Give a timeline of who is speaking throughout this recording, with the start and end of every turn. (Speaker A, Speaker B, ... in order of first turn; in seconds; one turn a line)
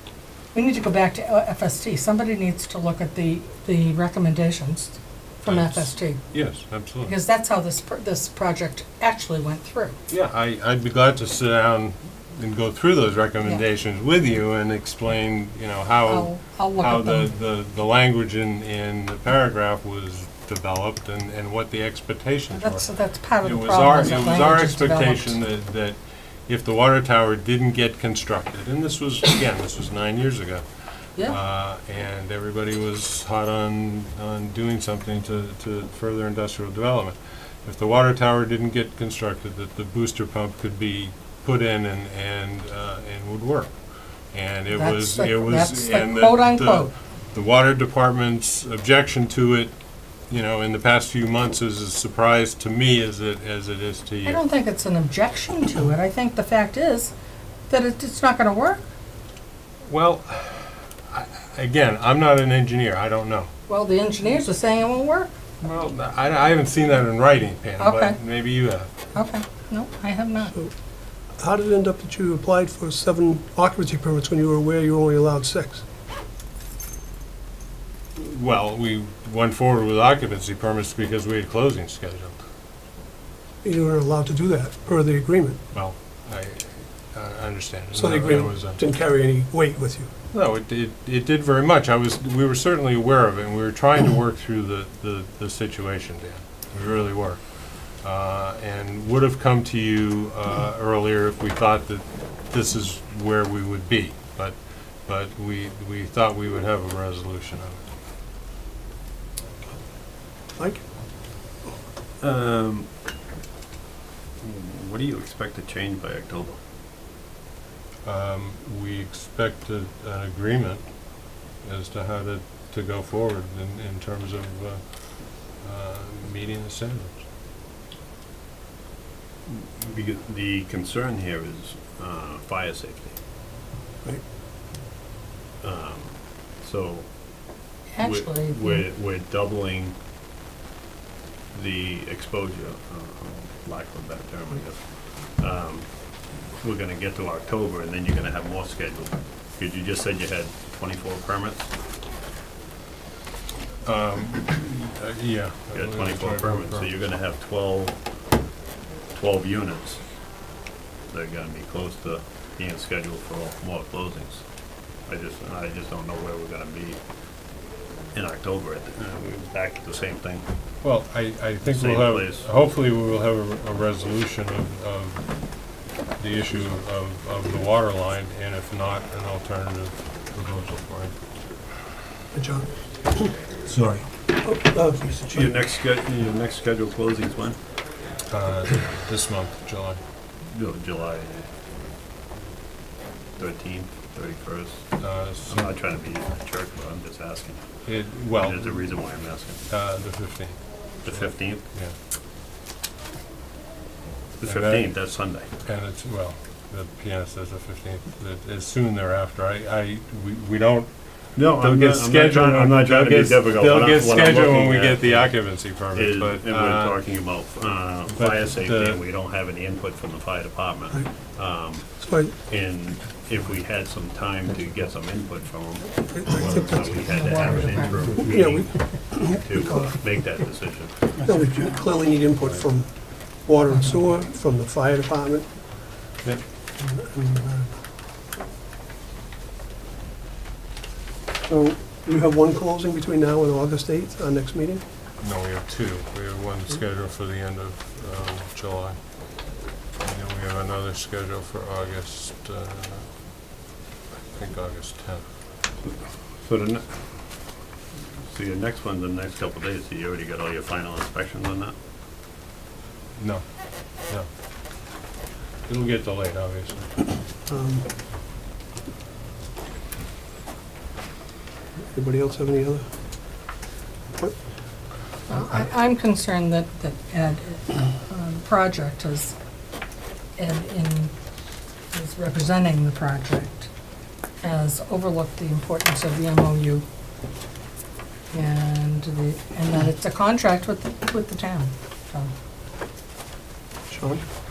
Speaker A: 0.5-6.2
Speaker B: 5.5-7.2
Speaker A: 7.0-10.0
Speaker B: 10.1-22.9
Speaker A: 16.1-17.3
Speaker A: 22.5-25.4
Speaker B: 23.4-30.6
Speaker B: 31.2-43.7
Speaker B: 44.3-49.7
Speaker A: 44.7-46.9
Speaker B: 50.3-54.4
Speaker A: 54.2-57.1
Speaker A: 57.7-58.9
Speaker B: 59.9-63.5
Speaker A: 63.7-65.3
Speaker B: 65.6-68.9
Speaker A: 67.8-68.2
Speaker A: 69.1-70.5
Speaker C: 71.4-75.8
Speaker B: 78.2-82.4
Speaker C: 83.6-85.6
Speaker B: 85.7-88.8
Speaker C: 87.9-90.1
Speaker B: 90.3-107.9
Speaker C: 110.5-110.8
Speaker D: 112.2-112.9
Speaker D: 114.4-116.6
Speaker B: 118.0-120.9
Speaker B: 121.6-127.2
Speaker D: 129.5-133.2
Speaker D: 135.6-137.1
Speaker A: 137.9-138.9
Speaker D: 138.0-140.0
Speaker D: 141.5-151.7
Speaker B: 153.8-156.9
Speaker D: 155.7-158.0
Speaker D: 159.1-160.0
Speaker D: 161.1-164.5
Speaker D: 165.1-167.0
Speaker D: 168.1-170.5
Speaker B: 170.8-175.6
Speaker D: 171.7-172.5
Speaker B: 176.2-181.2
Speaker C: 182.3-183.4
Speaker C: 184.4-185.5
Speaker D: 185.3-187.6
Speaker B: 188.3-190.0
Speaker D: 190.4-191.5
Speaker D: 193.4-194.9
Speaker B: 195.0-195.7
Speaker D: 195.5-197.7
Speaker B: 197.9-198.8
Speaker D: 198.4-199.7
Speaker B: 199.7-201.9
Speaker D: 201.1-201.6
Speaker D: 204.4-205.5
Speaker B: 204.4-204.9
Speaker B: 205.6-217.0
Speaker D: 211.4-221.9
Speaker B: 218.1-219.0
Speaker C: 222.0-222.3
Speaker D: 222.5-231.2
Speaker C: 226.1-227.1
Speaker A: 226.9-228.3
Speaker C: 228.3-230.1
Speaker C: 231.2-235.5
Speaker C: 236.8-237.7
Speaker C: 241.5-244.8
Speaker B: 245.2-249.0
Speaker B: 250.0-253.1
Speaker B: 254.3-255.2
Speaker D: 255.8-256.9
Speaker D: 258.3-261.8
Speaker B: 263.2-264.3
Speaker B: 265.7-266.9
Speaker C: 267.5-267.9
Speaker C: 271.9-272.9
Speaker A: 275.3-279.4
Speaker A: 280.4-281.1
Speaker A: 281.9-283.7
Speaker A: 284.4-286.9
Speaker A: 288.3-292.3
Speaker C: 293.9-294.2